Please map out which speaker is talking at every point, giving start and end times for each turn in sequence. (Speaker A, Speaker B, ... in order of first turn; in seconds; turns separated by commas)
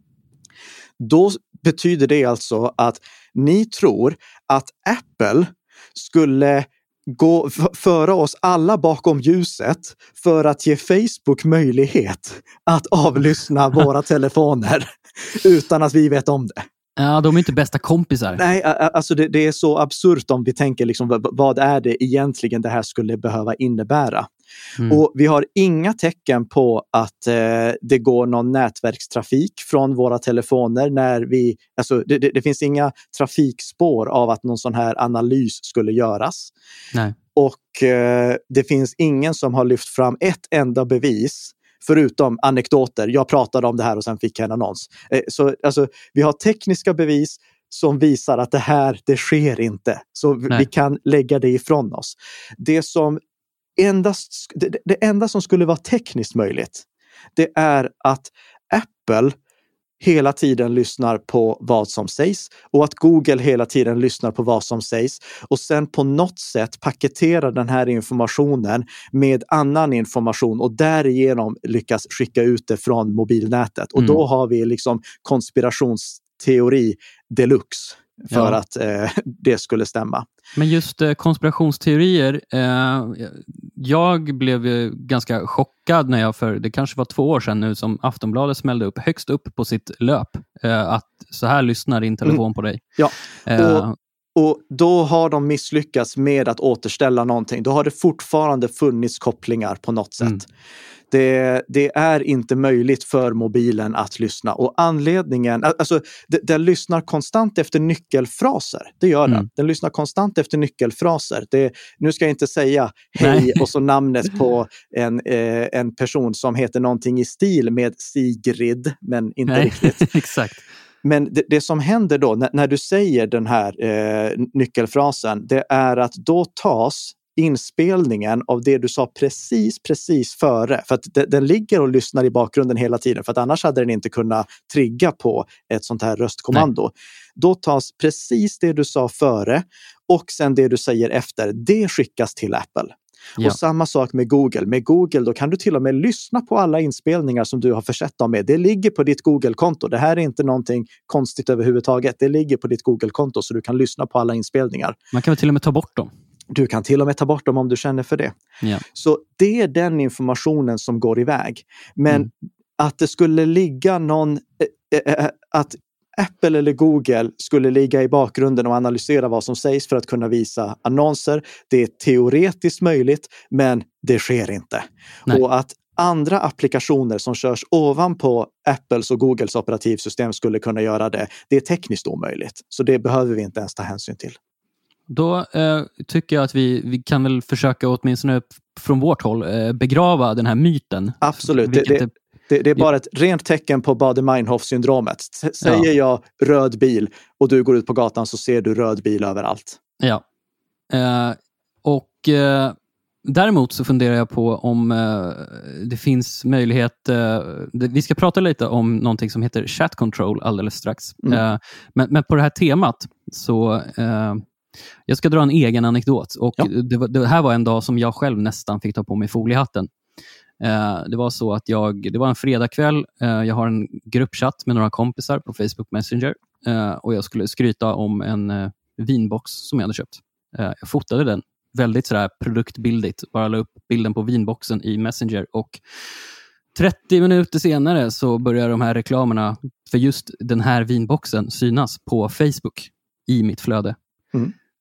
Speaker A: 1.0-16.6, Speaker B: 17.0-18.4, Speaker A: 18.4-24.3, Speaker A: 24.9-36.5, Speaker A: 37.3-53.2, Speaker A: 53.8-56.8, Speaker A: 57.4-59.3, Speaker A: 60.0-80.2, Speaker B: 74.0-74.2, Speaker B: 78.3-78.6, Speaker B: 80.5-92.8, Speaker A: 93.0-100.5, Speaker B: 93.5-93.9, Speaker A: 101.1-120.0, Speaker B: 113.2-113.6, Speaker B: 119.5-120.6, Speaker A: 121.0-154.9, Speaker B: 155.1-156.1, Speaker A: 156.5-158.3, Speaker A: 158.9-184.4, Speaker B: 185.1-192.1, Speaker A: 191.2-199.8, Speaker B: 195.6-195.9, Speaker B: 200.9-214.4, Speaker B: 215.1-219.9, Speaker B: 220.6-235.8, Speaker B: 236.7-244.0